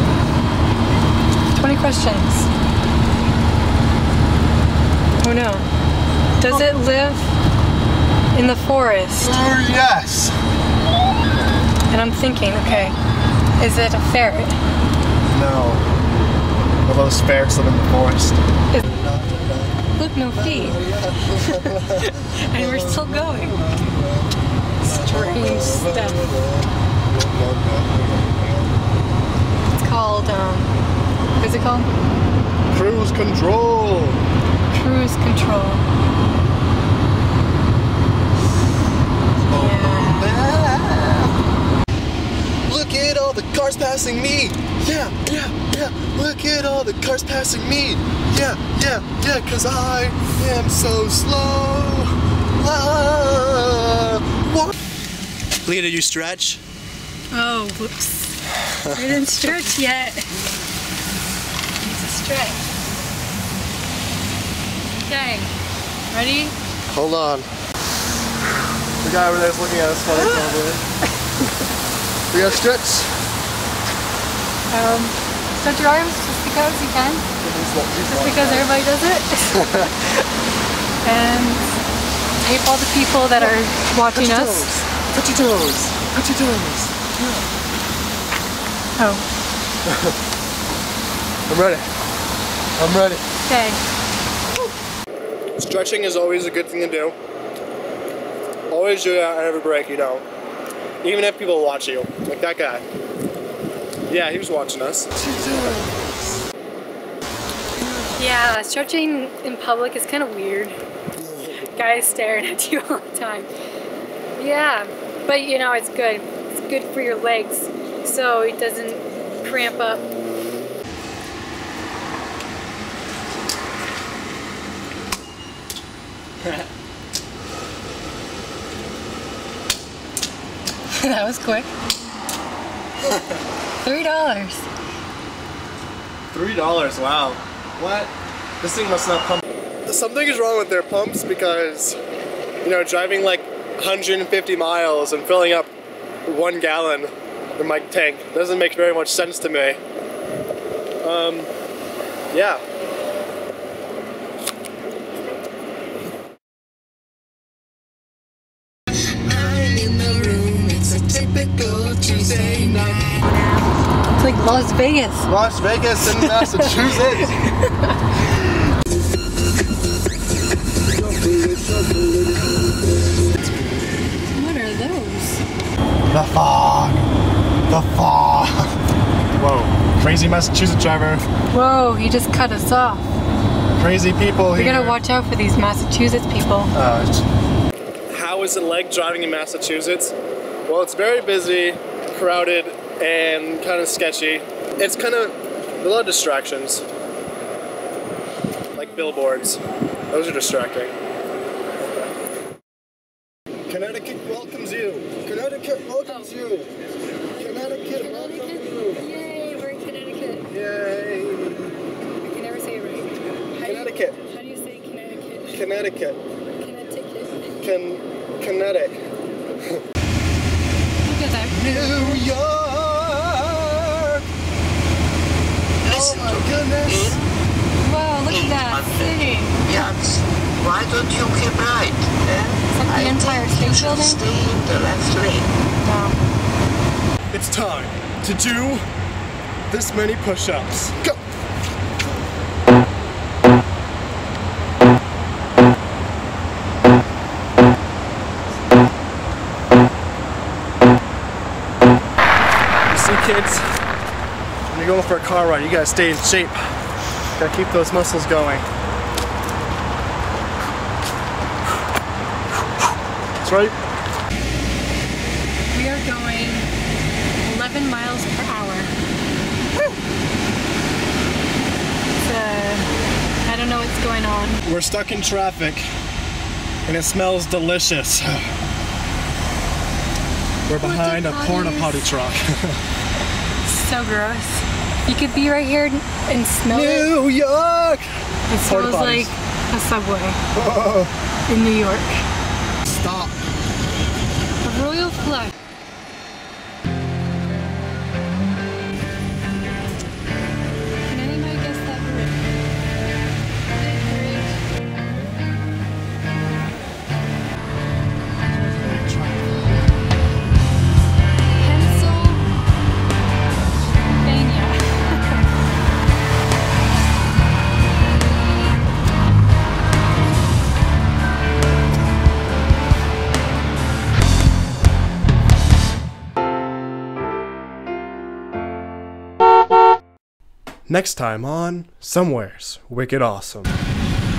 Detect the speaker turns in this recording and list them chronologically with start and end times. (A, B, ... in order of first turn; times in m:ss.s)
0:01.6-0:02.5 A
0:05.2-0:05.6 A
0:06.4-0:07.3 A
0:08.3-0:09.4 A
0:09.2-0:10.4 B
0:11.9-0:13.0 A
0:13.6-0:14.6 A
0:15.3-0:15.8 B
0:16.8-0:19.8 B
0:20.0-0:23.6 A
0:20.3-0:28.7 B
0:24.8-0:26.3 A
0:29.7-0:30.7 A
0:31.4-0:31.9 A
0:32.7-0:34.2 B
0:34.7-0:35.8 A
0:39.5-0:40.4 A
0:39.5-0:41.3 B
0:42.7-0:54.8 B
0:55.6-0:56.6 B
0:57.3-1:00.3 A
0:58.9-0:59.5 B
1:01.8-1:02.7 A
1:05.1-1:05.5 A
1:06.1-1:06.6 A
1:06.9-1:07.5 B
1:09.0-1:10.8 B
1:12.3-1:13.2 B
1:14.7-1:17.2 A
1:17.4-1:18.7 B
1:18.0-1:20.1 A
1:19.5-1:19.9 B
1:21.0-1:21.8 A
1:22.4-1:24.7 A
1:24.1-1:27.4 B
1:29.0-1:29.2 A
1:29.9-1:30.2 B
1:31.5-1:31.9 B
1:32.8-1:33.2 B
1:33.5-1:33.8 A
1:35.6-1:37.2 B
1:38.7-1:40.2 B
1:41.0-1:42.8 B
1:44.1-1:46.0 B
1:48.2-1:50.8 A
1:51.3-1:51.6 B
1:51.6-1:53.5 A
1:54.4-2:00.0 A
2:10.9-2:11.7 A
2:13.8-2:14.7 A
2:16.3-2:22.0 B
2:22.6-2:25.7 B
2:26.3-2:29.8 B
2:31.0-2:31.5 B
2:32.3-2:32.6 B
2:39.3-2:43.1 B
2:44.2-2:45.3 A
2:45.2-2:47.3 B
2:46.1-2:48.0 A
2:51.3-2:52.0 B
2:54.3-2:55.4 A
2:56.1-2:57.0 B
2:57.7-2:58.7 B
2:59.4-3:01.2 B
3:01.5-3:03.0 A
3:03.8-3:05.0 B
3:04.5-3:06.7 A
3:06.7-3:07.3 B
3:08.1-3:10.1 B
3:10.7-3:16.8 B
3:18.7-3:20.9 B
3:18.8-3:19.2 A
3:23.7-3:26.7 B
3:26.0-3:26.4 A
3:27.3-3:30.5 A
3:27.4-3:29.0 B
3:30.5-3:31.8 B
3:32.2-3:35.7 A
3:33.6-3:34.2 B
3:35.5-3:36.2 B
3:36.5-3:37.6 A
3:37.6-3:39.0 B
3:41.0-3:42.3 A
3:41.5-3:44.2 B
3:45.8-3:47.3 C
3:45.9-3:47.2 B
3:47.8-3:49.6 A
3:48.3-3:55.5 C
3:52.7-3:54.3 A
3:55.8-3:56.2 A
3:57.3-3:58.8 B
3:59.7-4:01.2 B
4:12.9-4:13.6 B
4:14.7-4:16.6 B
4:17.4-4:18.7 B
4:23.4-4:23.8 B
4:25.7-4:26.7 A
4:27.4-4:28.9 A
4:32.2-4:32.9 A
4:33.5-4:34.6 A
4:34.6-4:35.8 B
4:36.9-4:38.5 B
4:40.7-4:42.8 B
4:40.7-4:42.2 A
4:43.6-4:47.1 A
4:46.7-4:48.1 B
4:48.5-4:50.4 A
4:48.7-4:49.3 B
4:50.5-4:51.1 B
4:51.5-4:52.2 A
4:52.9-4:53.4 B
4:54.6-4:55.5 A
5:01.1-5:02.5 A
5:03.8-5:04.6 A
5:08.5-5:10.0 B
5:11.6-5:12.4 A
5:14.2-5:15.5 A
5:30.9-5:33.8 B